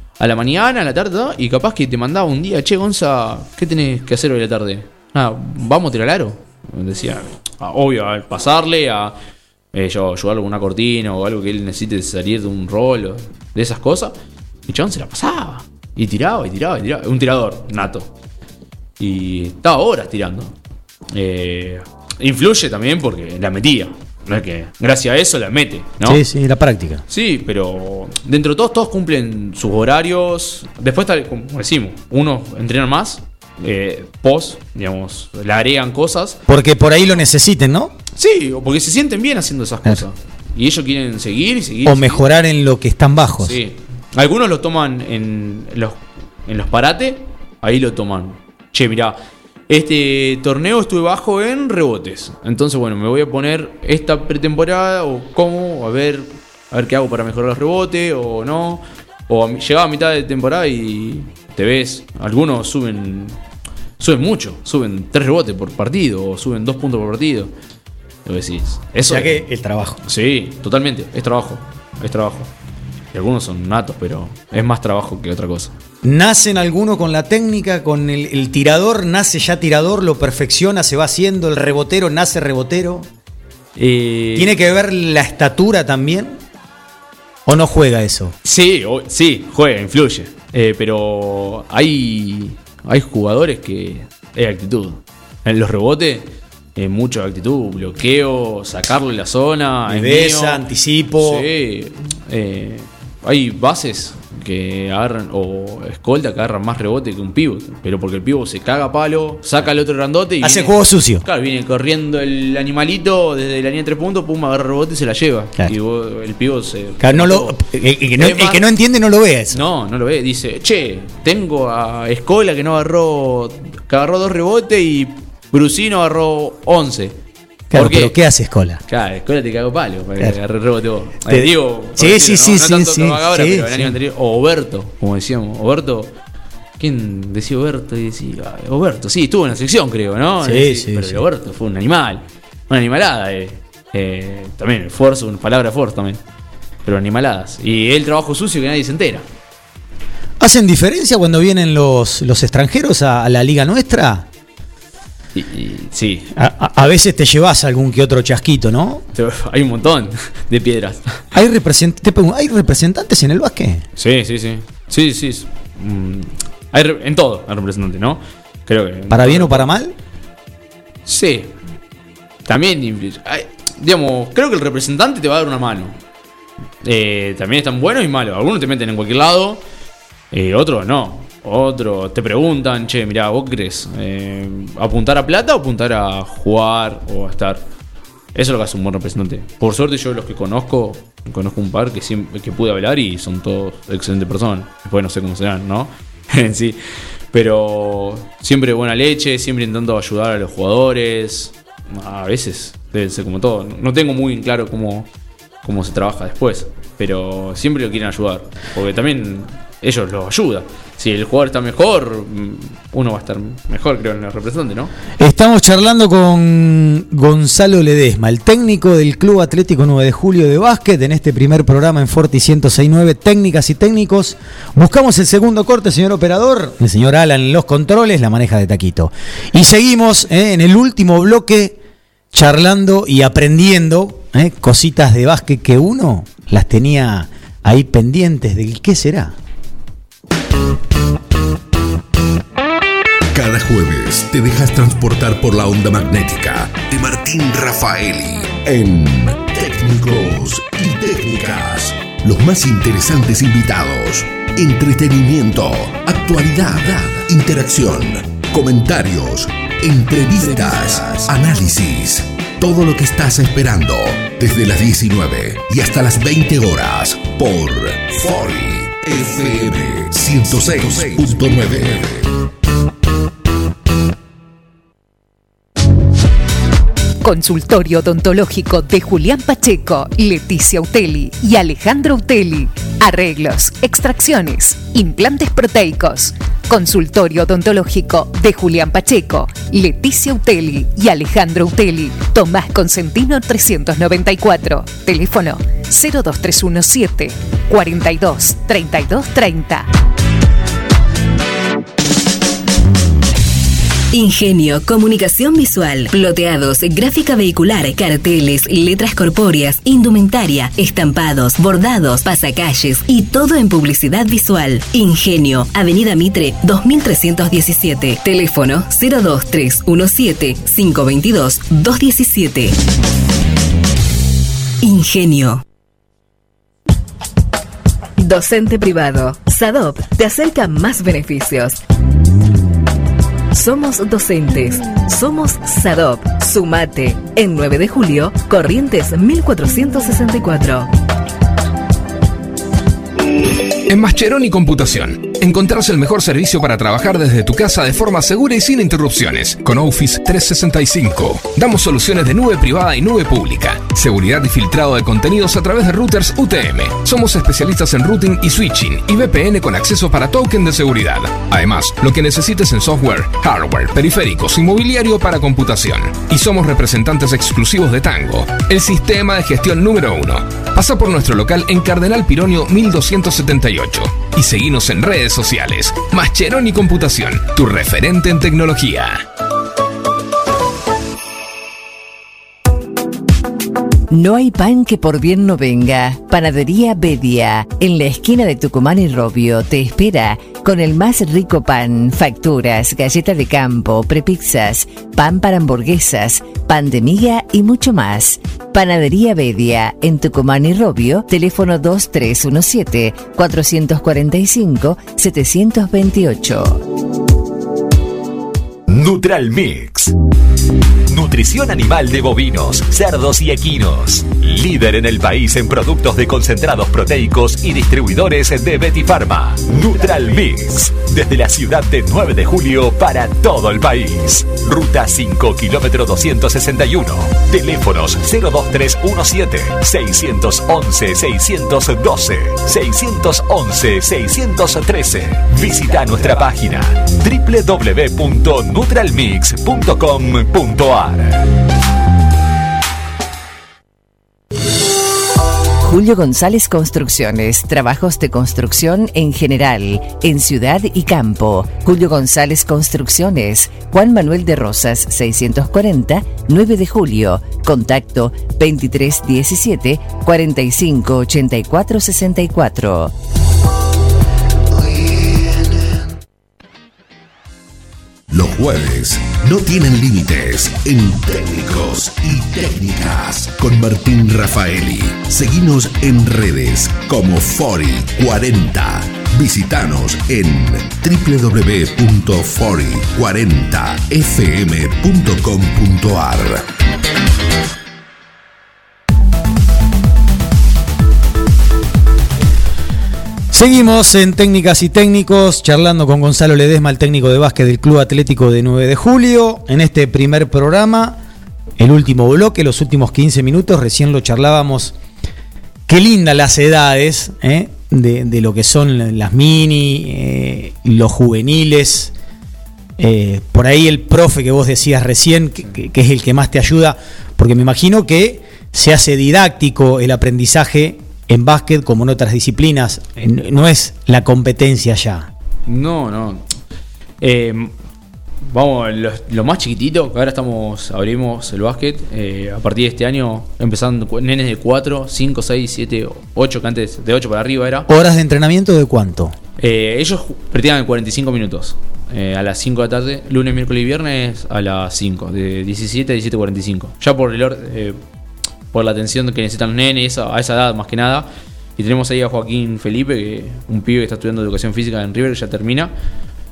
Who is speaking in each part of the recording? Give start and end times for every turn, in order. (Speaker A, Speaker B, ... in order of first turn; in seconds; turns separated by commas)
Speaker A: 0.2-9.2, Speaker A: 9.7-14.1, Speaker A: 14.7-18.1, Speaker A: 19.0-20.5, Speaker A: 21.1-26.2, Speaker B: 26.0-27.0, Speaker A: 27.1-36.4, Speaker B: 36.5-37.9, Speaker A: 38.2-42.2, Speaker B: 41.8-43.6, Speaker A: 43.4-49.2, Speaker A: 49.7-63.4, Speaker A: 64.0-67.5, Speaker A: 68.2-69.4, Speaker B: 69.1-70.0, Speaker A: 70.0-72.5, Speaker A: 73.1-75.7, Speaker B: 76.0-83.1, Speaker A: 83.8-84.5, Speaker B: 84.4-86.4, Speaker B: 87.5-88.4, Speaker A: 88.4-100.7, Speaker B: 99.9-101.5, Speaker A: 101.2-117.6, Speaker B: 110.4-111.2, Speaker B: 117.0-119.6, Speaker A: 118.2-118.7, Speaker A: 119.5-127.2, Speaker B: 127.7-128.8, Speaker A: 127.7-128.2, Speaker A: 128.9-136.1, Speaker B: 131.3-133.9, Speaker A: 136.8-146.2, Speaker B: 140.4-141.2, Speaker A: 146.8-149.3, Speaker B: 150.4-154.3, Speaker A: 155.3-156.3, Speaker B: 156.3-159.0, Speaker A: 159.1-161.2, Speaker B: 161.3-163.8, Speaker A: 164.0-169.7, Speaker B: 169.1-169.9, Speaker A: 171.1-171.5, Speaker A: 172.5-176.0, Speaker A: 176.8-179.6, Speaker A: 180.3-187.6, Speaker A: 188.3-196.8, Speaker A: 197.3-205.1, Speaker A: 205.6-214.9, Speaker B: 215.2-231.8, Speaker B: 232.3-239.4, Speaker C: 243.3-272.3, Speaker D: 277.2-299.9, Speaker E: 304.1-322.8, Speaker E: 324.8-325.6, Speaker E: 328.2-331.8, Speaker E: 333.5-340.9, Speaker F: 343.9-379.2, Speaker G: 384.1-406.9, Speaker H: 408.9-410.1, Speaker H: 411.1-441.5, Speaker G: 445.8-463.1, Speaker C: 468.3-486.7, Speaker B: 493.5-501.2, Speaker B: 501.8-504.9, Speaker B: 505.9-512.1, Speaker B: 513.0-525.3, Speaker A: 525.7-526.5, Speaker A: 527.2-527.7, Speaker A: 528.5-537.9, Speaker B: 537.9-539.4, Speaker A: 539.6-548.0, Speaker A: 548.7-555.9